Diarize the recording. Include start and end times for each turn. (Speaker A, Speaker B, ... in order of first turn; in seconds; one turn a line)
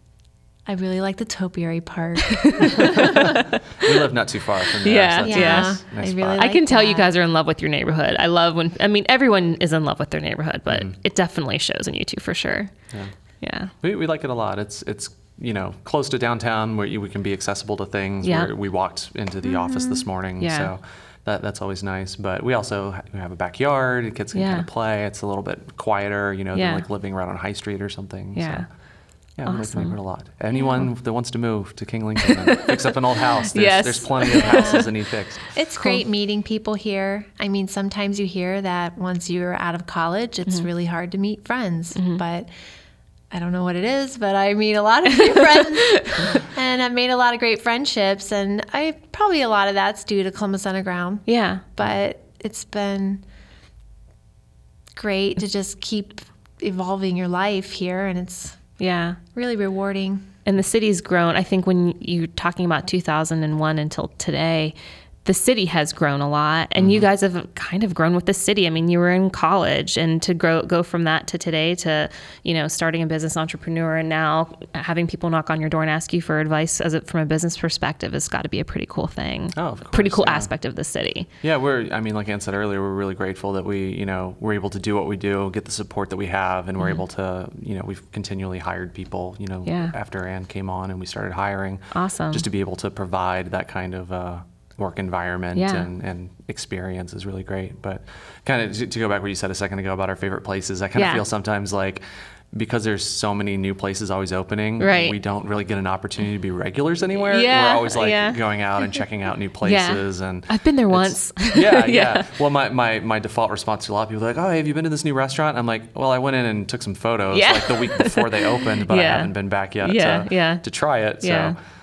Speaker A: 0.7-3.1
Speaker B: 2.3-3.9
Speaker C: 2.8-6.4
Speaker B: 4.8-5.8
Speaker A: 5.2-7.1
Speaker B: 6.3-12.7
Speaker B: 13.4-13.7
Speaker C: 13.8-28.7
Speaker B: 18.2-18.5
Speaker B: 20.4-20.7
Speaker B: 24.3-24.7
Speaker B: 26.5-26.8
Speaker B: 28.3-28.7
Speaker C: 29.4-35.5
Speaker B: 29.4-29.9
Speaker B: 32.2-34.8
Speaker A: 34.3-34.9
Speaker A: 35.5-42.5
Speaker B: 35.8-36.0
Speaker B: 42.0-42.2
Speaker A: 43.3-53.2
Speaker B: 45.3-46.3
Speaker B: 51.3-51.6
Speaker A: 54.9-58.6
Speaker B: 58.8-59.2
Speaker A: 59.3-60.3
Speaker B: 60.5-64.7
Speaker B: 65.2-81.3
Speaker C: 66.8-67.1
Speaker C: 79.5-80.5
Speaker C: 81.4-121.5
Speaker B: 89.7-89.9
Speaker B: 91.9-92.4
Speaker B: 95.5-95.9
Speaker B: 100.9-101.2
Speaker B: 104.8-105.2
Speaker B: 107.2-109.0
Speaker B: 109.6-112.3
Speaker B: 117.3-120.6
Speaker B: 121.2-121.5